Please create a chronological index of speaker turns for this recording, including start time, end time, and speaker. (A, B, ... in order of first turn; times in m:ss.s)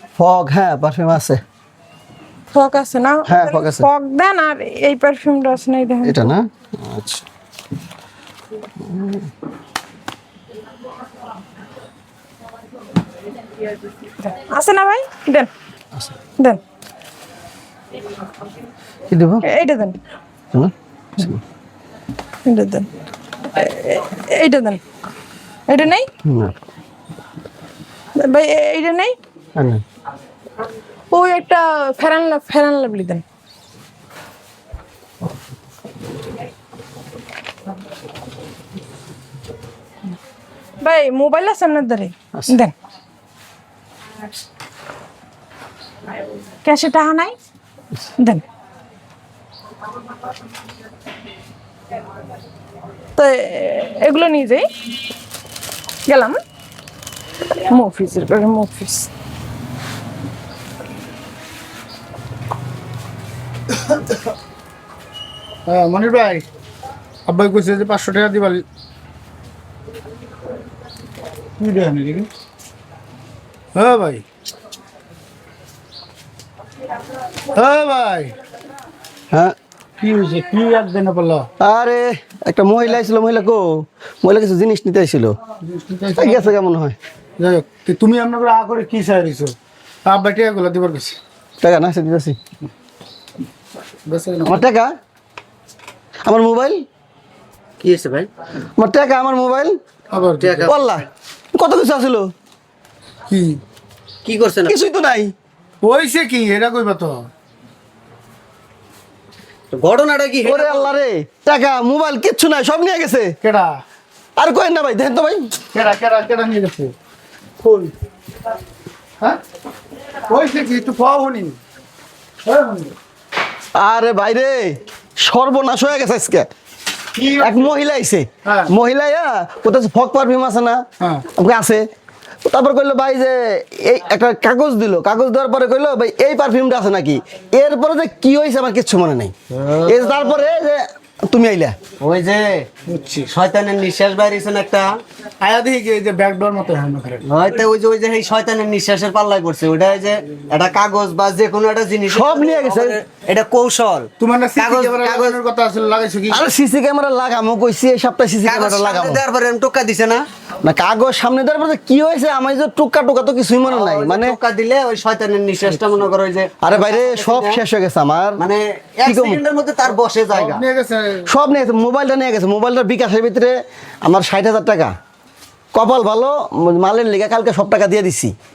0:00.2-0:01.4 A
0:02.5-0:06.3 B
0:03.3-0:03.9 A
0:06.0-0:07.2 A
0:08.8-0:09.3 A
0:14.2-0:15.5 B
0:19.1-0:19.5 A
0:19.4-0:20.0 B
0:20.5-0:21.4 A
0:22.4-0:22.9 B
0:23.5-0:24.8 B
0:25.7-0:26.1 B
0:26.2-0:26.5 A
0:28.2-0:29.2 B
0:29.6-0:29.8 A
0:31.1-0:33.2 B
0:40.8-0:42.7 B
0:46.6-0:47.4 B
0:48.2-0:48.4 B
0:53.2-0:54.7 B
0:56.1-0:56.4 B
0:57.6-0:59.1 B
1:05.7-1:06.4 C
1:07.3-1:08.6 C
1:11.6-1:12.3 C
1:13.8-1:14.2 C
1:17.5-1:18.3 C
1:20.0-1:21.5 C
1:21.6-1:25.4 A
1:25.6-1:26.5 C
1:26.2-1:27.0 A
1:27.4-1:31.2 C
1:31.6-1:32.4 A
1:34.1-1:34.6 C
1:34.5-1:34.9 A
1:36.3-1:36.8 A
1:37.8-1:38.3 D
1:38.8-1:39.8 A
1:40.1-1:40.7 C
1:40.4-1:41.0 D
1:40.7-1:42.3 A
1:43.3-1:43.6 C
1:44.2-1:44.8 D
1:44.7-1:45.3 A
1:45.8-1:47.3 C
1:49.7-1:50.9 D
1:50.4-1:53.4 A
1:53.4-1:53.8 C
1:54.4-1:55.5 A
1:55.7-1:56.9 C
1:57.6-1:57.9 C
2:00.3-2:01.6 C
2:02.4-2:02.9 C
2:03.8-2:06.5 A
2:07.2-2:07.7 C
2:07.4-2:11.8 A
2:08.4-2:08.7 C
2:11.0-2:11.3 C
2:12.5-2:19.3 A
2:19.5-2:20.2 D
2:19.8-2:21.8 A
2:22.0-2:22.7 D
2:22.9-2:23.3 C
2:23.3-2:24.9 D
2:25.4-2:27.3 C
2:27.2-2:35.4 D
2:32.1-2:33.0 A
2:34.2-2:36.5 C
2:36.3-2:39.2 A
2:38.4-2:40.2 D
2:40.6-2:44.4 A
2:43.6-2:47.6 D
2:46.6-2:48.4 A
2:48.4-2:50.6 D
2:49.0-2:49.4 A
2:50.3-2:51.3 C
2:51.3-2:54.9 A
2:55.7-2:58.3 A